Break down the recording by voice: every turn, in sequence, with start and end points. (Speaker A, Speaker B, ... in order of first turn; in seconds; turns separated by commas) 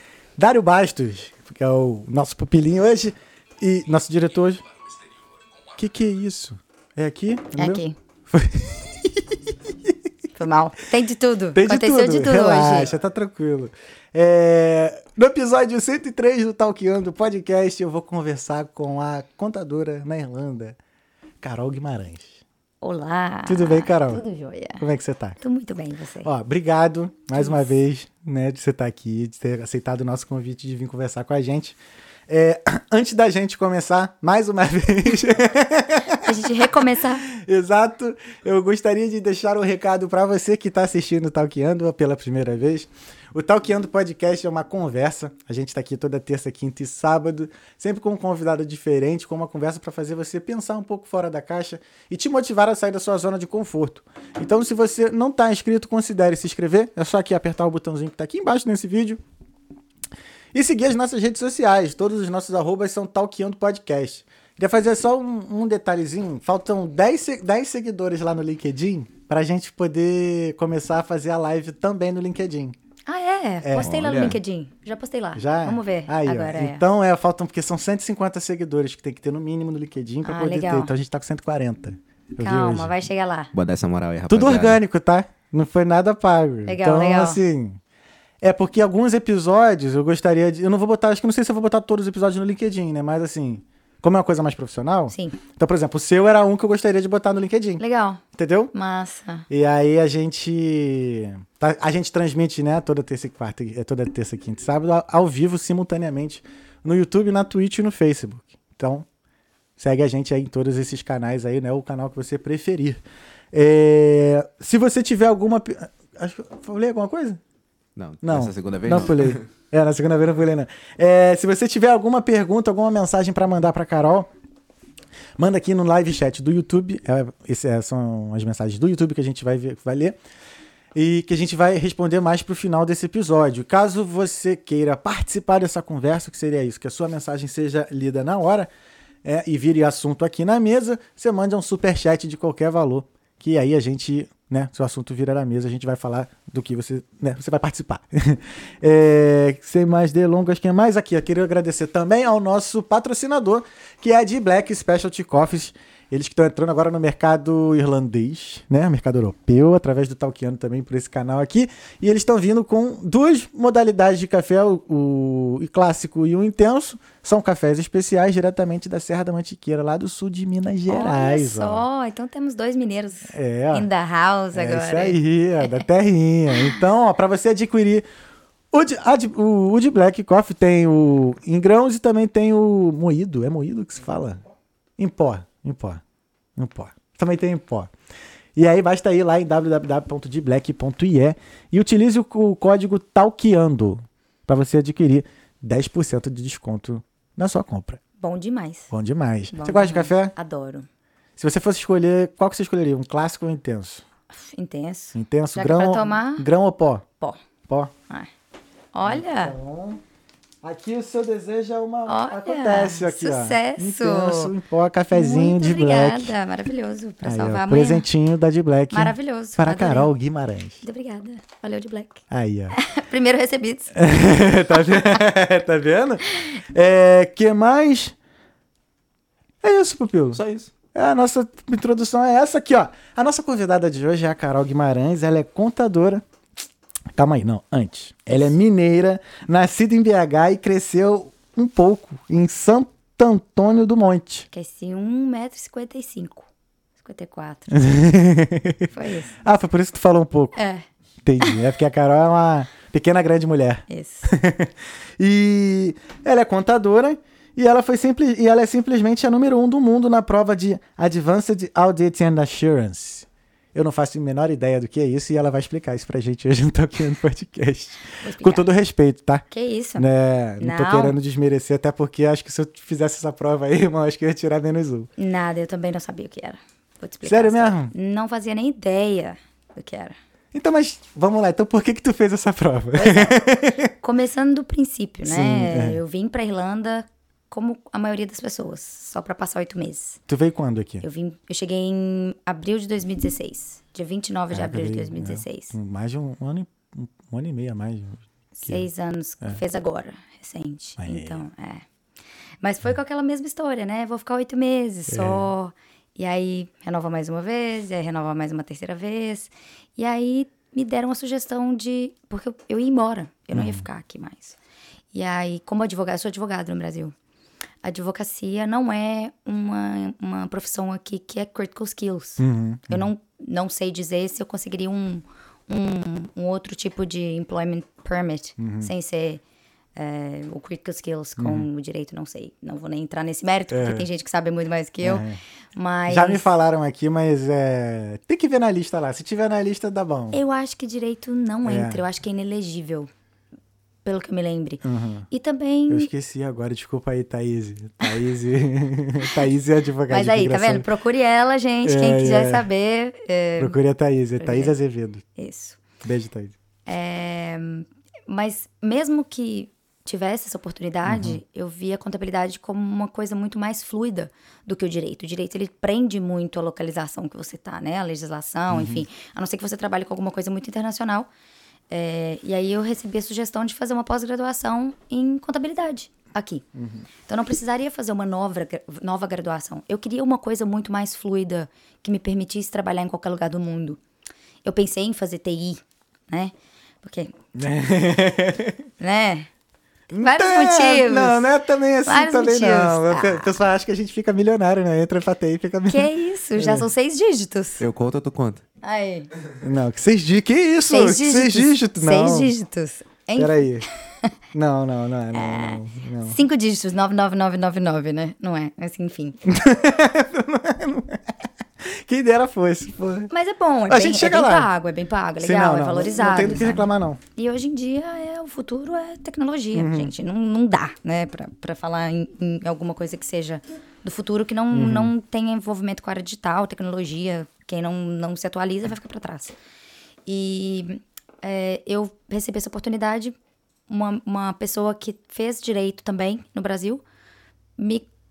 Speaker A: 0.4-4.6, Speaker A: 5.8-9.9, Speaker B: 7.6-8.0, Speaker B: 10.3-12.9, Speaker A: 11.6-20.8, Speaker A: 21.4-22.4, Speaker B: 22.8-24.8, Speaker A: 23.5-24.2, Speaker A: 24.8-25.4, Speaker B: 25.4-26.3, Speaker A: 26.2-31.8, Speaker B: 27.4-27.7, Speaker A: 32.3-59.2, Speaker B: 36.2-37.2, Speaker A: 60.5-72.8, Speaker B: 73.1-76.8, Speaker A: 73.6-74.1, Speaker C: 73.8-74.4, Speaker A: 75.3-83.0, Speaker B: 80.2-80.9, Speaker B: 82.4-83.5, Speaker C: 83.5-84.8, Speaker A: 84.3-87.8, Speaker B: 86.7-87.4, Speaker A: 88.4-97.8, Speaker B: 95.1-95.4, Speaker B: 97.8-99.5, Speaker A: 98.3-98.7, Speaker A: 99.5-109.1, Speaker A: 109.8-113.0, Speaker A: 113.5-117.4, Speaker C: 118.0-119.4, Speaker A: 118.2-124.3, Speaker A: 125.4-130.2, Speaker A: 130.9-138.7, Speaker A: 139.2-171.8, Speaker B: 170.9-175.8, Speaker A: 173.3-173.9, Speaker A: 174.5-178.1, Speaker A: 178.7-184.4, Speaker A: 185.0-186.0, Speaker A: 186.6-187.9, Speaker A: 188.6-198.0, Speaker B: 198.2-198.9, Speaker A: 198.9-200.3, Speaker B: 199.5-200.9, Speaker A: 201.4-204.0, Speaker B: 204.3-206.5, Speaker A: 205.1-207.1, Speaker A: 207.7-207.9, Speaker B: 208.9-209.6, Speaker A: 209.0-210.0, Speaker A: 210.6-216.3, Speaker B: 212.1-214.5, Speaker B: 215.1-218.1, Speaker A: 217.2-220.8, Speaker B: 218.9-220.1, Speaker B: 220.8-223.9, Speaker A: 222.3-222.8, Speaker A: 223.9-228.2, Speaker B: 224.7-225.2, Speaker A: 229.6-230.4, Speaker C: 230.3-230.7, Speaker A: 230.9-236.2, Speaker A: 237.2-244.5, Speaker B: 244.5-247.8, Speaker A: 247.7-248.9, Speaker B: 248.9-249.3, Speaker A: 249.4-250.6, Speaker B: 250.6-250.9, Speaker A: 251.2-269.4, Speaker B: 253.9-254.3, Speaker B: 268.2-268.7, Speaker B: 269.5-270.1, Speaker A: 270.0-275.1, Speaker B: 270.6-271.2, Speaker B: 275.2-280.2, Speaker A: 277.2-277.9, Speaker A: 280.5-283.9, Speaker B: 282.9-290.2, Speaker A: 285.3-286.0, Speaker A: 290.3-291.1, Speaker B: 291.0-295.7, Speaker A: 294.5-298.9, Speaker B: 298.6-301.9, Speaker A: 301.0-301.4, Speaker B: 302.6-314.6, Speaker A: 305.1-305.5, Speaker A: 313.5-313.9, Speaker B: 315.1-317.1, Speaker B: 317.8-329.4, Speaker A: 322.4-323.1, Speaker A: 328.6-328.9, Speaker B: 330.0-336.5, Speaker A: 331.4-331.7, Speaker A: 333.7-334.1, Speaker A: 335.0-335.4, Speaker A: 336.1-340.4, Speaker B: 340.3-343.1, Speaker A: 341.6-342.0, Speaker B: 344.1-346.1, Speaker A: 344.8-345.3, Speaker A: 345.9-350.9, Speaker B: 350.1-353.8, Speaker A: 351.8-352.7, Speaker A: 353.6-355.2, Speaker B: 354.4-354.7, Speaker B: 355.4-355.8, Speaker A: 356.0-356.6, Speaker B: 356.9-371.3, Speaker A: 361.1-361.4, Speaker A: 368.7-369.0, Speaker B: 371.9-376.6, Speaker A: 376.8-377.1, Speaker B: 377.3-384.0, Speaker B: 384.6-387.3, Speaker A: 387.6-388.9, Speaker B: 389.0-389.5, Speaker A: 390.1-396.9, Speaker B: 390.2-391.5, Speaker B: 392.1-393.6, Speaker B: 395.9-397.8, Speaker C: 397.8-398.6, Speaker B: 398.8-399.3, Speaker A: 399.6-402.5, Speaker B: 400.9-404.3, Speaker A: 403.4-403.9, Speaker A: 404.5-406.4, Speaker B: 405.3-409.4, Speaker A: 409.4-411.2, Speaker A: 411.8-413.3, Speaker B: 413.3-429.6, Speaker A: 413.9-414.7, Speaker A: 415.4-417.2, Speaker A: 419.7-420.1, Speaker A: 424.7-425.1, Speaker B: 430.3-433.4, Speaker B: 433.9-437.0, Speaker B: 437.8-438.1